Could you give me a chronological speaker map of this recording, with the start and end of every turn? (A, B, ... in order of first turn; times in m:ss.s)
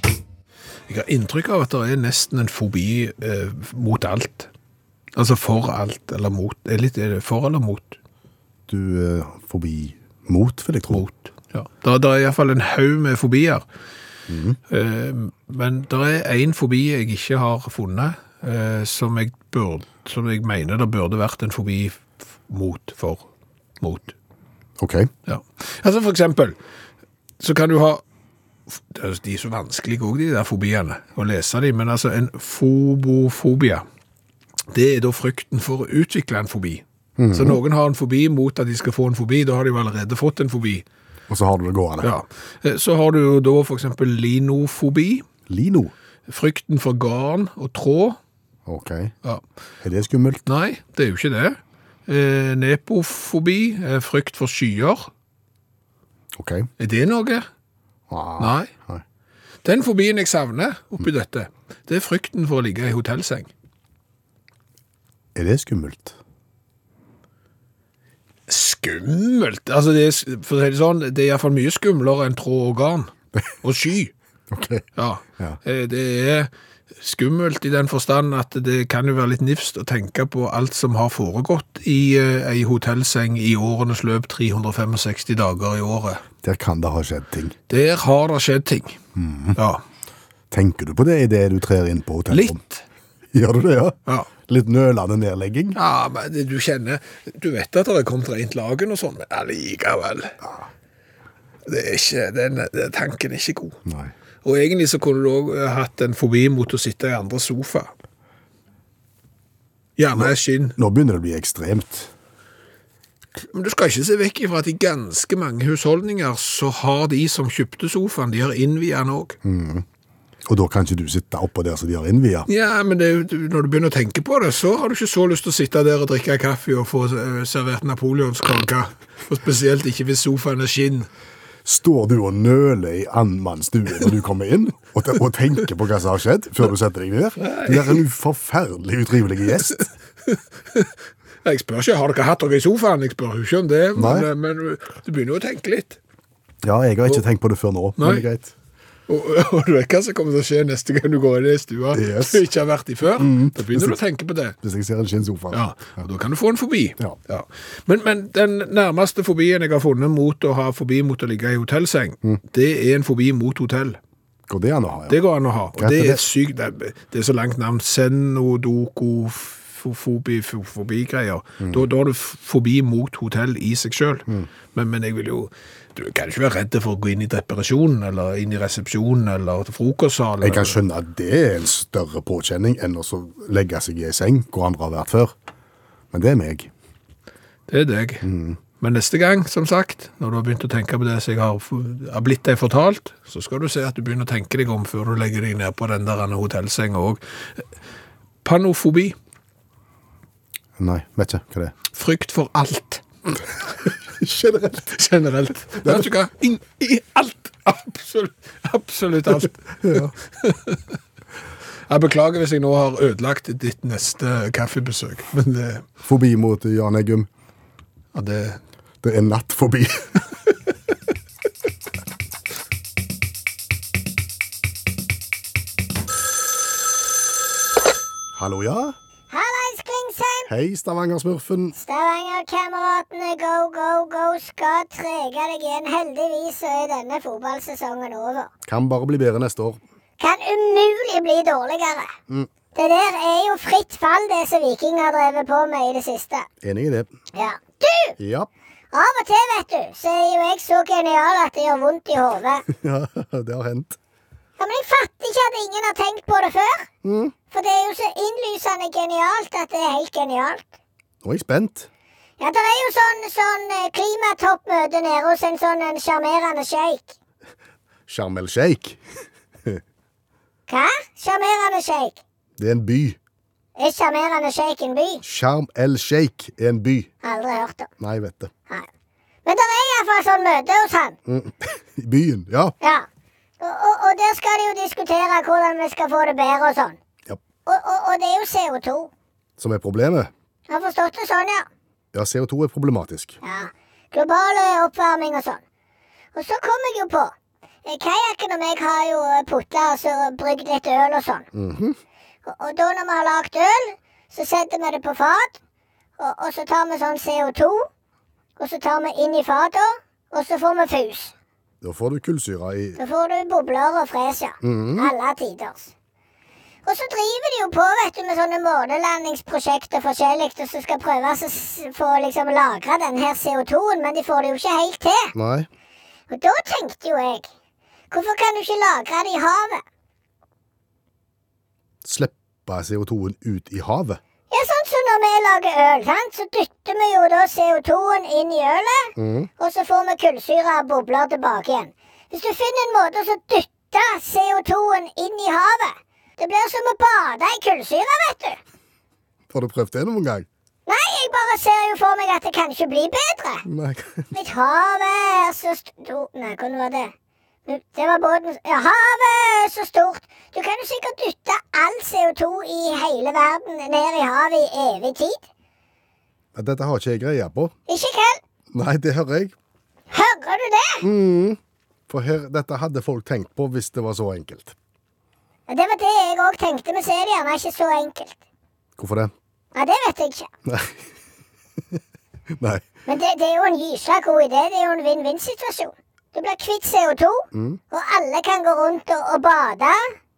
0:00.9-0:04.5 A
0:05.2-0:08.0 A
0:08.7-0:11.0 B
0:10.9-0:13.6 A
0:14.3-0:14.6 B
0:14.7-0:23.3 A
0:23.8-0:24.1 A
0:24.8-0:25.1 B
0:25.3-0:26.6 A
0:27.4-0:28.0 A
0:28.7-0:33.8 A
0:34.7-0:40.8 A
0:37.2-0:37.6 B
0:41.3-0:42.1 B
0:42.0-0:45.2 A
0:45.5-0:45.9 B
0:46.3-0:48.2 A
0:48.6-0:49.1 B
0:49.8-0:50.4 B
0:50.5-0:55.1 A
0:56.4-0:56.7 B
0:56.8-0:57.5 A
0:58.1-0:59.0 B
0:58.4-0:58.7 A
0:59.6-1:03.5 A
1:05.3-1:06.2 B
1:08.5-1:14.1 A
1:14.5-1:14.8 B
1:15.0-1:26.2 A
1:26.4-1:27.6 B
1:27.7-1:29.0 A
1:29.1-1:29.6 B
1:29.6-1:29.8 A
1:30.5-1:32.6 B
1:32.3-1:32.8 A
1:33.3-1:35.8 B
1:35.8-1:40.4 A
1:40.4-1:40.7 B
1:41.6-1:43.8 A
1:43.8-1:44.1 B
1:44.4-1:47.9 A
1:50.0-1:50.8 A
1:50.1-1:52.1 B
1:53.5-1:59.4 A
1:59.4-1:59.8 B
2:00.4-2:02.5 B
2:02.5-2:11.1 A
2:11.6-2:19.8 B
2:17.4-2:18.0 A
2:19.7-2:20.9 A
2:21.4-2:26.0 A
2:23.9-2:24.3 B
2:26.6-2:28.5 B
2:28.0-2:28.2 A
2:29.1-2:34.6 A
2:31.9-2:32.4 B
2:33.2-2:34.0 B
2:34.6-2:36.1 B
2:35.5-2:44.0 A
2:44.5-2:45.2 B
2:45.1-3:00.8 A
2:45.8-2:46.2 B
3:00.4-3:05.3 B
3:06.1-3:06.7 B
3:07.7-3:08.3 A
3:08.2-3:08.6 B
3:08.8-3:17.6 A
3:18.4-3:19.2 A
3:20.8-3:21.7 B
3:21.9-3:23.0 A
3:24.1-3:24.9 B
3:24.9-3:30.8 A
3:29.8-3:30.1 B
3:31.9-3:35.8 A
3:36.0-3:37.3 B
3:38.1-3:38.6 A
3:39.0-3:40.2 B
3:48.3-3:49.0 B
3:49.3-3:50.5 C
3:50.5-3:51.8 B
3:51.8-3:58.5 C
3:58.6-3:59.8 B
4:00.2-4:02.1 C
4:02.7-4:06.5 C
4:06.6-4:07.1 B
4:07.3-4:08.2 C
4:08.2-4:08.5 B
4:08.9-4:12.6 C
4:12.7-4:14.0 B
4:14.6-4:16.9 C
4:17.0-4:17.3 B
4:17.5-4:20.6 C
4:21.2-4:21.9 B
4:22.4-4:27.1 C
4:28.1-4:29.0 B
4:30.7-4:32.2 C
4:32.6-4:33.2 B
4:33.8-4:35.2 C
4:35.2-4:37.1 B
4:37.2-4:37.9 C
4:38.0-4:38.5 B
4:39.4-4:41.2 C
4:41.2-4:42.7 B
4:42.8-4:43.0 C
4:43.6-4:47.0 C
4:47.6-4:49.1 C
4:49.6-4:50.3 B
4:50.7-4:51.7 C
4:52.1-4:53.4 B
4:53.4-4:55.6 C
4:56.3-4:57.3 C
4:57.8-5:01.5 C
5:01.5-5:02.0 B
5:02.4-5:05.6 C
5:06.2-5:07.9 C
5:08.6-5:11.3 C
5:11.8-5:13.0 B
5:13.0-5:15.9 C
5:14.6-5:15.1 B
5:16.8-5:25.3 C
5:25.3-5:25.7 B
5:26.3-5:27.5 C
5:28.1-5:29.8 C
5:32.0-5:34.2 B
5:34.5-5:48.6 C
5:39.2-5:39.5 B
5:49.5-5:50.5 B
5:50.8-5:53.6 C
5:53.6-5:54.3 B
5:54.3-5:57.1 C
5:57.7-6:05.4 C
6:06.5-6:07.7 B
6:07.9-6:08.4 C
6:08.7-6:09.5 B
6:10.1-6:11.1 C
6:11.0-6:14.8 B
6:15.7-6:18.4 C
6:19.0-6:19.3 B
6:19.7-6:20.5 C
6:20.7-6:21.0 B
6:22.5-6:22.8 B
6:23.0-6:30.1 C
6:27.5-6:27.8 B